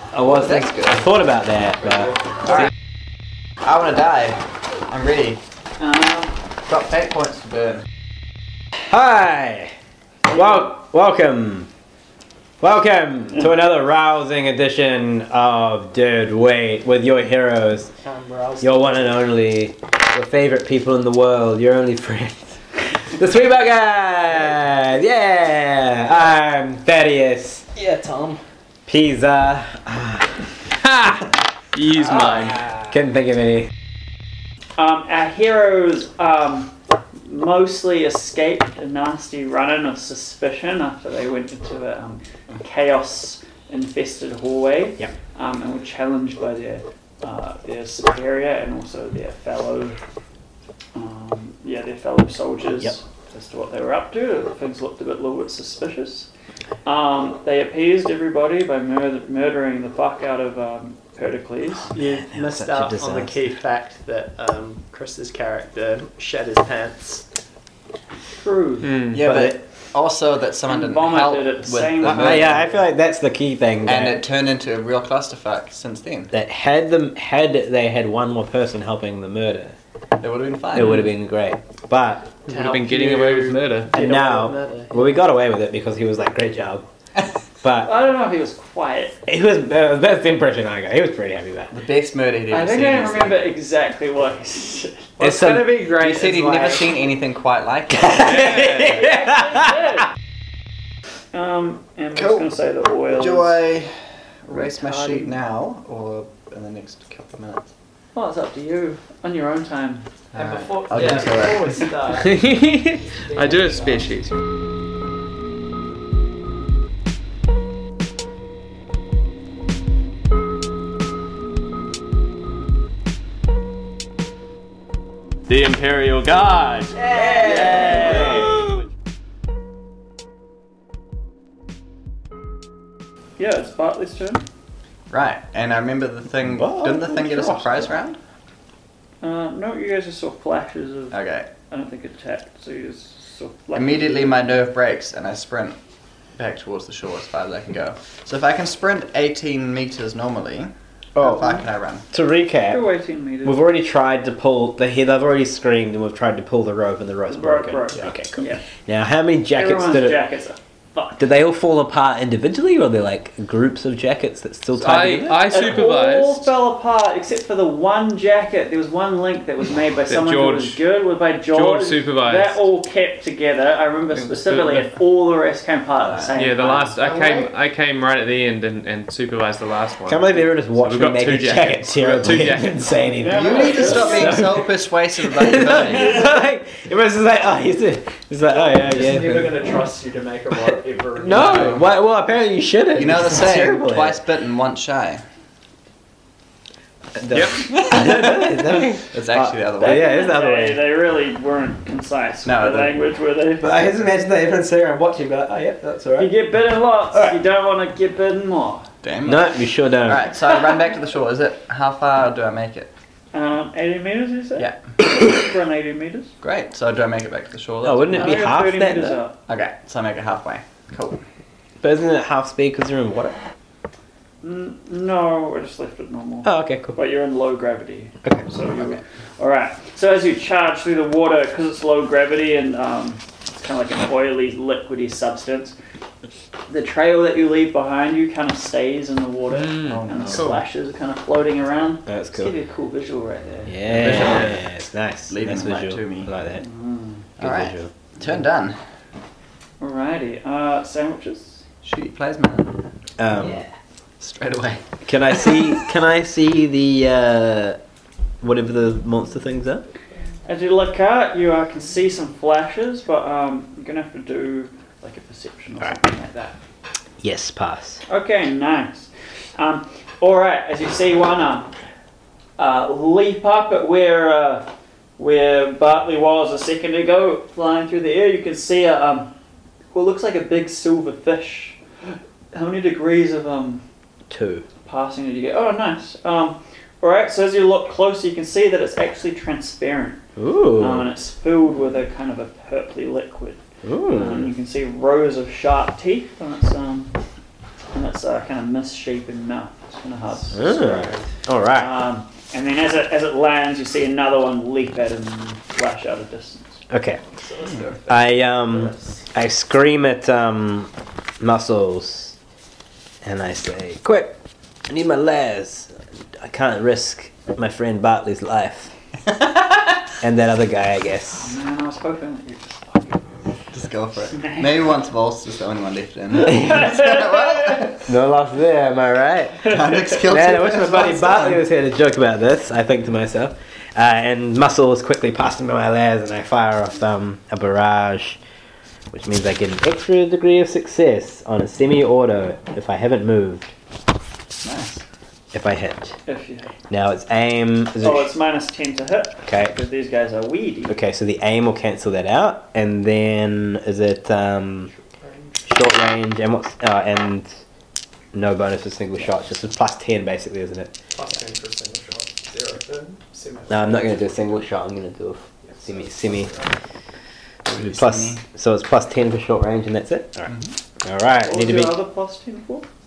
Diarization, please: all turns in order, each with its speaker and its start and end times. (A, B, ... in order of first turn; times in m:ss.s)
0:00.1-0:02.1 A
0:00.2-0:01.0 B
0:03.6-0:05.4 B
0:05.8-0:06.3 C
0:06.6-0:07.8 B
0:08.9-0:09.7 A
0:10.3-0:11.7 A
0:12.6-0:17.9 A
0:18.0-0:19.2 D
0:18.6-0:27.6 A
0:27.7-0:28.4 D
0:28.9-0:30.3 A
0:30.8-0:32.6 E
0:32.9-0:33.4 A
0:34.8-0:50.0 C
0:50.9-0:56.3 C
0:56.8-1:01.9 C
1:01.9-1:07.2 D
1:01.9-1:03.6 A
1:08.4-1:08.9 C
1:08.8-1:09.2 E
1:09.1-1:12.8 B
1:09.2-1:09.6 A
1:10.7-1:12.6 C
1:12.0-1:14.2 A
1:13.8-1:16.3 B
1:16.3-1:19.8 A
1:20.2-1:21.1 B
1:20.7-1:22.3 A
1:22.4-1:25.1 D
1:22.5-1:23.9 E
1:23.9-1:26.8 A
1:27.6-1:27.9 A
1:27.8-1:29.2 C
1:29.3-1:31.7 A
1:31.7-1:33.5 B
1:32.5-1:35.1 C
1:35.2-1:35.9 A
1:35.2-1:36.9 D
1:35.8-1:38.6 B
1:37.9-1:39.8 A
1:38.2-1:39.1 E
1:38.9-1:40.0 C
1:41.3-1:43.6 C
1:42.2-1:42.5 B
1:43.1-1:47.7 B
1:44.5-1:45.4 C
1:48.1-1:50.0 C
1:50.3-1:51.9 B
1:50.3-1:52.5 D
1:52.1-1:54.4 E
1:53.2-1:54.1 D
2:05.5-2:07.0 E
2:07.0-2:08.6 A
2:07.4-2:08.5 B
2:07.4-2:08.2 C
2:07.8-2:08.6 E
2:13.4-2:14.4 C
2:15.1-2:18.2 B
2:16.4-2:17.9 A
2:19.2-2:24.5 C
2:21.1-2:21.5 B
2:23.7-2:25.8 B
2:26.3-2:32.0 B
2:31.1-2:32.9 A
2:32.6-2:33.6 C
2:33.4-2:40.2 A
2:37.3-2:38.6 C
2:39.5-2:41.2 C
2:41.2-2:45.7 A
2:44.8-2:46.5 E
2:45.5-2:57.3 C
2:50.1-2:50.8 E
2:51.5-2:52.6 E
2:54.1-2:54.9 E
2:56.0-2:57.5 B
2:56.3-3:02.8 E
3:00.1-3:09.6 A
3:03.2-3:04.4 C
3:03.3-3:06.4 B
3:08.5-3:11.8 D
3:11.2-3:14.2 A
3:11.3-3:11.8 B
3:12.9-3:15.2 B
3:17.2-3:20.8 A
3:17.3-3:17.6 E
3:17.6-3:20.2 B
3:19.8-3:23.7 C
3:22.4-3:23.0 B
3:23.6-3:26.3 A
3:26.2-3:28.9 C
3:27.1-3:27.4 A
3:29.0-3:32.9 B
3:29.2-3:30.3 A
3:33.3-3:36.3 C
3:36.4-3:38.5 B
3:37.8-3:39.2 A
3:38.1-3:39.4 C
3:39.5-3:41.2 B
3:41.8-3:43.4 A
3:44.4-3:55.8 C
3:46.4-3:47.0 A
3:56.7-4:03.8 C
3:59.5-4:00.6 E
4:00.0-4:00.4 B
4:02.0-4:02.5 A
4:03.6-4:06.6 A
4:03.9-4:04.6 E
4:04.0-4:04.5 B
4:05.3-4:06.3 B
4:06.6-4:07.2 C
4:07.4-4:07.9 A
4:07.4-4:08.8 B
4:09.8-4:11.6 C
4:11.8-4:12.7 B
4:13.2-4:13.6 A
4:14.2-4:14.8 B
4:15.0-4:17.8 A
4:18.4-4:19.8 A
4:20.4-4:26.6 C
4:27.2-4:28.0 A
4:28.1-4:31.7 C
4:32.6-4:39.3 C
4:39.9-4:41.8 C
4:42.5-4:43.8 C
4:44.3-4:44.6 A
4:44.8-4:50.2 C
4:50.4-4:51.1 A
4:50.8-4:57.1 C
4:53.8-4:54.5 A
4:57.9-5:06.8 C
5:00.5-5:01.9 A
5:06.9-5:07.2 A
5:07.3-5:09.0 D
5:08.1-5:12.4 A
5:13.2-5:14.4 A
5:14.9-5:18.9 A
5:19.2-5:20.0 B
5:20.2-5:21.6 A
5:21.4-5:23.3 C
5:23.7-5:28.0 B
5:24.4-5:24.6 C
5:26.5-5:27.2 C
5:28.0-5:38.4 A
5:29.6-5:31.6 B
5:39.1-5:43.7 A
5:44.6-5:45.0 B
5:45.5-5:46.2 A
5:46.2-5:46.7 C
5:46.9-5:48.3 A
5:48.0-5:51.0 C
5:49.4-5:49.7 A
5:50.9-5:54.9 A
5:55.1-5:55.6 D
5:55.6-5:57.5 A
5:58.3-6:00.9 A
6:01.1-6:04.6 D
6:03.7-6:06.5 A
6:05.6-6:06.7 D
6:07.6-6:08.4 B
6:07.7-6:12.0 A
6:11.4-6:12.8 C